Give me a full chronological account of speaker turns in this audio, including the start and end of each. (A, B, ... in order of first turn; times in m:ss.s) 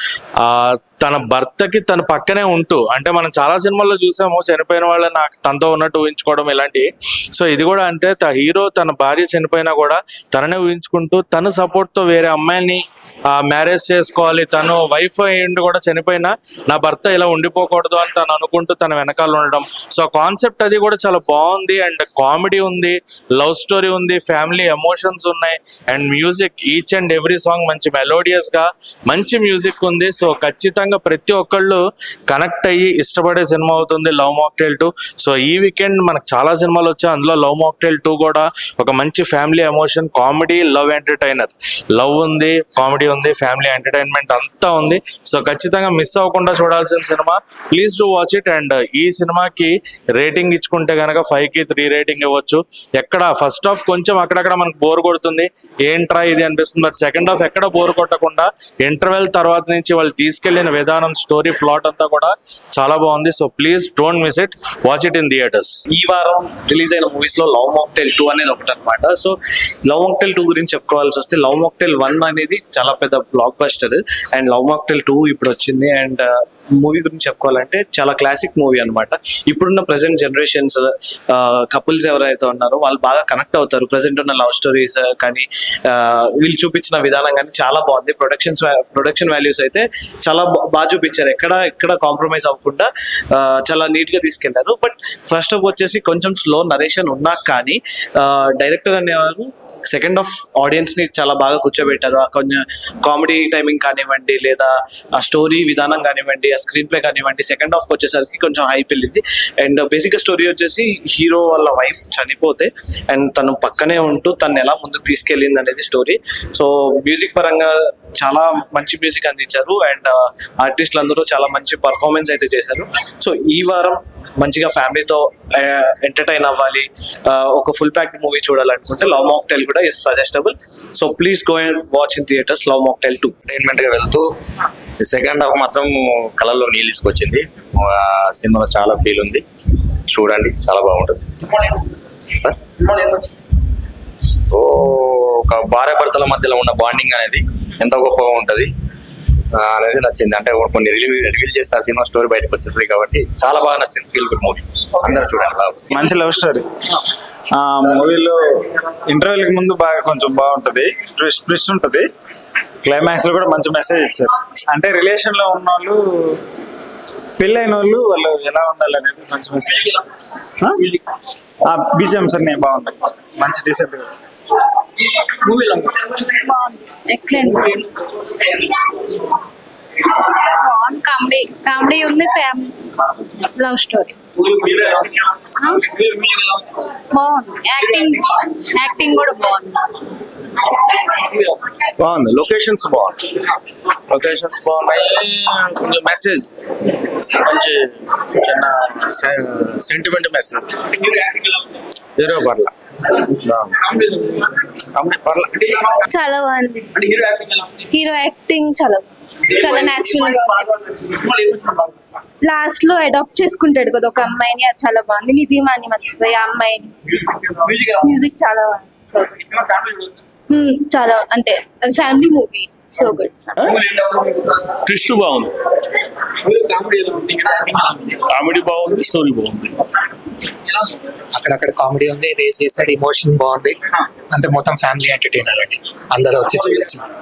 0:00.4-1:05.8 A
1:05.9-1:09.3 B
1:09.8-2:13.3 B
2:13.5-2:14.2 C
2:15.0-2:19.4 C
2:20.1-2:21.2 C
2:24.5-2:28.7 C
2:29.5-2:35.8 C
2:35.9-2:36.6 D
2:37.5-2:38.4 D
2:39.1-2:42.1 D
2:42.8-2:46.4 D
2:47.4-2:50.0 D
2:50.6-2:50.8 D
2:51.6-2:54.1 D
2:56.0-2:58.9 E
3:00.2-3:02.8 E
3:03.4-3:05.0 E
3:05.6-3:06.0 E
3:07.1-3:09.8 E
3:12.1-3:13.2 F
3:14.1-3:16.5 F
3:17.3-3:17.8 F
3:18.4-3:20.8 F
3:26.1-3:26.9 G
3:27.9-3:31.1 G
3:32.4-3:39.4 G
3:40.5-3:43.3 G
3:44.9-3:45.5 H
3:48.3-3:49.7 H
3:48.6-3:49.3 F
3:51.3-3:57.0 I